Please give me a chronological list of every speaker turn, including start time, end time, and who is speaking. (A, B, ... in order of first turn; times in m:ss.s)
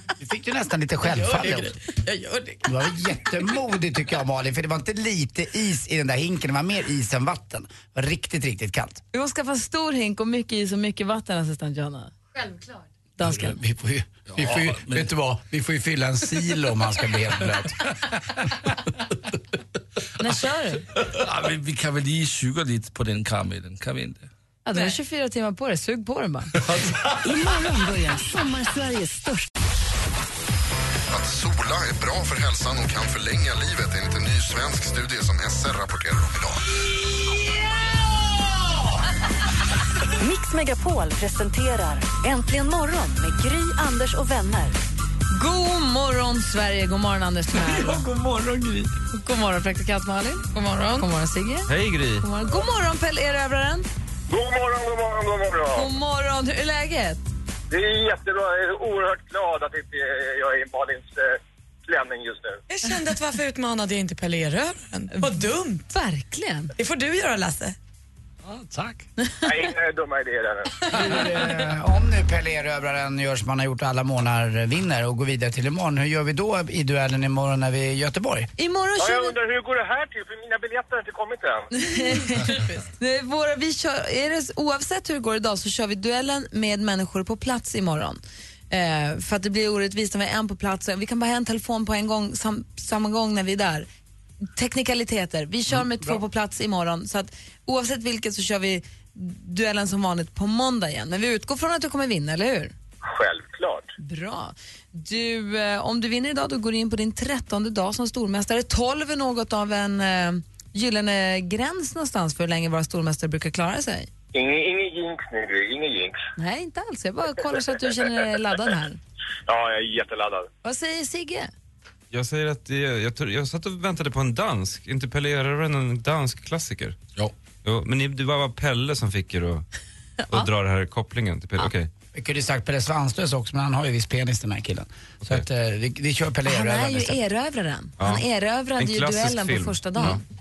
0:00.2-0:01.8 A
0:01.0-0:03.1 B
0:02.6-0:09.0 A
0:09.1-0:12.1 C
0:13.2-0:13.6 C
0:13.2-0:17.8 A
0:14.3-0:15.1 D
0:20.2-0:20.8 C
0:21.0-0:24.3 D
0:24.6-0:26.5 C
0:26.6-0:27.2 D
0:27.2-0:29.4 E
0:31.1-0:36.6 F
0:40.1-0:44.8 E
0:45.3-0:48.0 C
0:49.1-0:53.9 C
0:50.5-0:51.0 B
0:51.7-0:52.2 G
0:54.3-0:55.9 H
0:55.7-0:57.2 C
0:57.7-1:02.6 H
1:02.7-1:05.9 B
1:05.9-1:06.7 C
1:06.8-1:07.8 B
1:08.4-1:09.0 D
1:09.2-1:09.6 C
1:09.4-1:10.8 H
1:10.9-1:18.5 A
1:18.6-1:19.4 C
1:19.0-1:21.7 H
1:21.7-1:33.9 C
1:22.0-1:22.8 B
1:34.6-1:42.7 C
1:35.7-1:36.2 A
1:43.0-1:43.9 H
1:44.0-1:54.1 C
1:54.3-1:56.2 H
1:56.4-1:59.0 C
1:59.5-2:00.5 H
2:00.6-2:01.5 C
2:02.1-2:07.0 G
2:07.6-2:09.6 G
2:10.3-2:11.9 G
2:12.1-2:17.2 A
2:16.4-2:20.2 C
2:18.0-2:18.2 G
2:18.8-2:20.2 G